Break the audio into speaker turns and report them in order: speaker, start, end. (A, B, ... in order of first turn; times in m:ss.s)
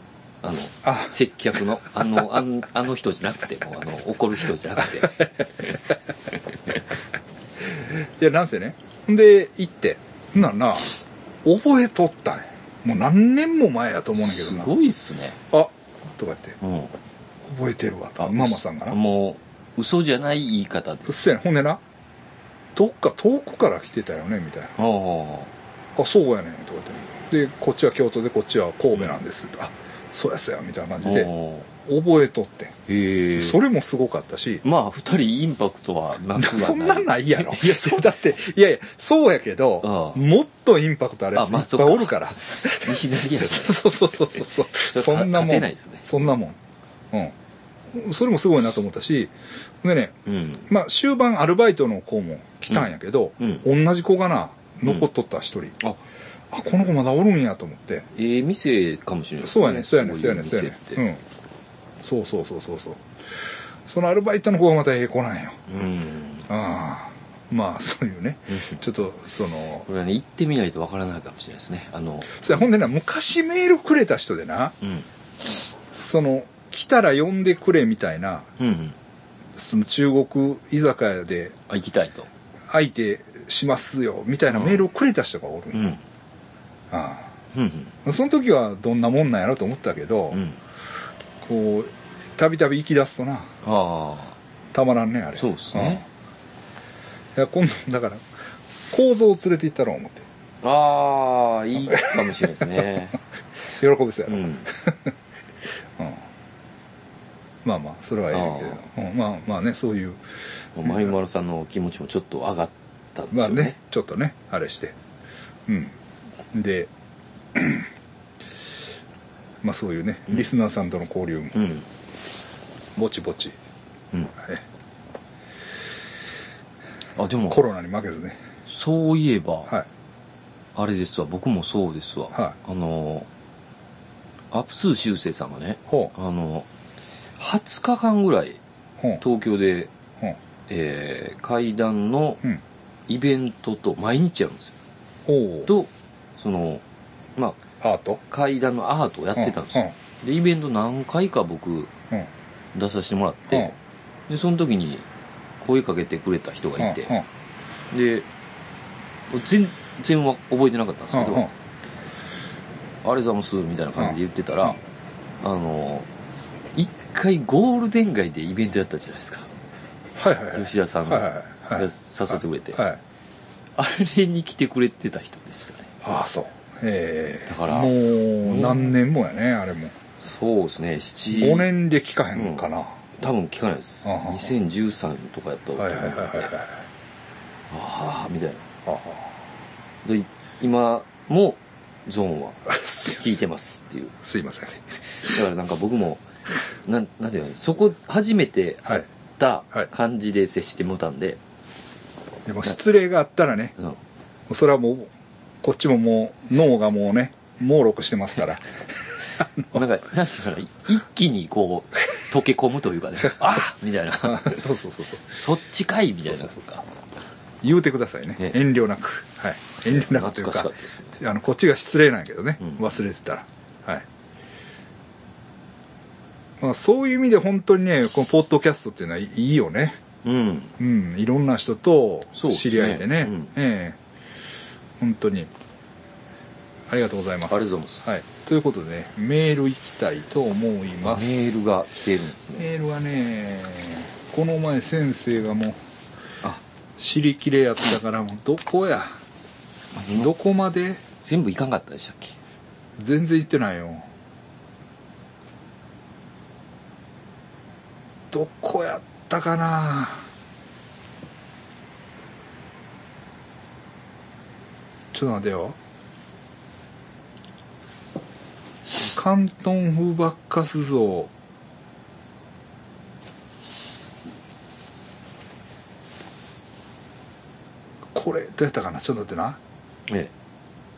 0:00.4-0:05.8 A
0:00.8-0:01.1 B
0:08.2-0:14.7 B
0:14.2-0:15.4 A
0:15.5-0:16.6 B
0:16.6-0:16.9 A
0:17.4-0:19.0 B
0:18.2-0:21.2 A
0:21.0-0:21.8 B
0:22.7-0:24.8 B
0:24.8-0:25.5 A
0:26.0-0:32.8 B
0:28.9-0:29.2 A
0:31.0-0:31.7 A
0:32.9-0:33.6 A
0:33.4-0:34.6 B
0:34.6-0:38.1 A
0:36.3-0:46.6 B
0:39.8-0:40.2 A
0:41.3-0:46.2 A
0:47.9-0:50.2 B
0:50.2-0:50.7 A
0:50.7-0:55.8 B
0:52.7-0:53.6 A
0:56.5-0:58.1 B
0:58.1-1:01.0 A
0:59.4-1:01.2 B
1:02.0-1:03.0 B
1:03.9-1:05.6 B
1:05.7-1:06.5 A
1:06.5-1:09.9 B
1:09.8-1:12.7 A
1:12.3-1:14.8 B
1:15.9-1:18.5 B
1:18.6-1:19.0 A
1:19.6-1:21.6 B
1:21.7-1:22.3 A
1:22.7-1:26.0 B
1:24.5-1:24.8 A
1:25.7-1:26.0 A
1:26.9-1:27.3 B
1:27.5-1:27.9 A
1:28.0-1:30.4 B
1:30.3-1:30.6 A
1:31.4-1:33.5 B
1:33.6-1:34.4 A
1:34.7-1:36.0 B
1:35.4-1:36.0 A
1:37.4-1:38.2 B
1:38.9-1:40.2 B
1:40.6-1:43.2 A
1:41.8-1:42.9 B
1:43.8-1:45.1 B
1:44.3-1:44.7 A
1:46.0-1:46.2 B
1:47.6-1:50.2 B
1:48.3-1:48.8 A
1:50.8-1:53.8 A
1:53.3-1:54.9 B
1:55.7-1:55.9 B
1:56.5-1:56.9 B
1:57.5-1:57.9 B
1:59.6-2:01.6 B
2:01.5-2:01.8 A
2:03.0-2:03.6 B
2:07.2-2:07.6 A
2:07.5-2:08.4 B
2:08.7-2:09.7 A
2:10.7-2:13.3 A
2:14.5-2:16.7 A
2:15.9-2:16.1 B
2:17.4-2:18.6 A
2:19.2-2:19.9 A
2:20.7-2:22.4 A
2:23.1-2:24.7 A
2:25.3-2:25.7 B
2:25.6-2:26.8 A
2:27.8-2:28.2 B
2:28.3-2:31.9 A
2:29.4-2:29.9 B
2:32.7-2:33.8 A
2:34.3-2:35.1 A
2:35.6-2:37.1 A
2:36.8-2:37.2 B
2:37.9-2:38.3 A
2:39.3-2:41.5 A
2:41.1-2:41.5 B
2:43.0-2:44.8 A
2:45.4-2:46.1 A
2:46.7-2:49.5 A
2:50.2-2:53.0 B
2:50.5-2:52.8 A
2:53.8-2:55.9 A
2:56.0-3:00.0 B
2:57.5-2:59.0 A
3:00.2-3:01.7 A
3:01.3-3:03.0 B
3:02.3-3:06.5 A
3:04.0-3:04.5 B
3:05.8-3:06.8 B
3:07.7-3:08.7 A
3:08.8-3:09.3 B
3:10.0-3:14.1 A
3:12.7-3:13.4 B
3:14.2-3:15.3 B
3:15.2-3:16.2 A
3:16.8-3:21.4 A
3:22.4-3:23.7 B
3:24.5-3:25.1 B
3:25.6-3:28.7 B
3:29.4-3:29.8 B
3:29.7-3:34.7 A
3:34.2-3:35.3 B
3:35.2-3:36.8 A
3:37.6-3:44.0 B
3:39.9-3:41.2 A
3:46.6-3:50.0 B
3:50.2-3:50.7 A
3:50.8-3:54.0 B
3:52.3-3:53.5 A
3:55.0-3:55.5 B
3:56.9-4:01.4 B
3:57.5-3:58.2 A
4:01.0-4:02.7 A
4:02.6-4:05.8 B
4:07.0-4:09.2 B
4:09.9-4:10.3 A
4:10.1-4:11.0 B
4:11.2-4:12.4 A
4:13.0-4:14.0 B
4:18.3-4:20.2 B
4:25.1-4:25.8 B
4:29.0-4:31.3 B
4:38.1-4:39.6 B
4:40.1-4:40.3 A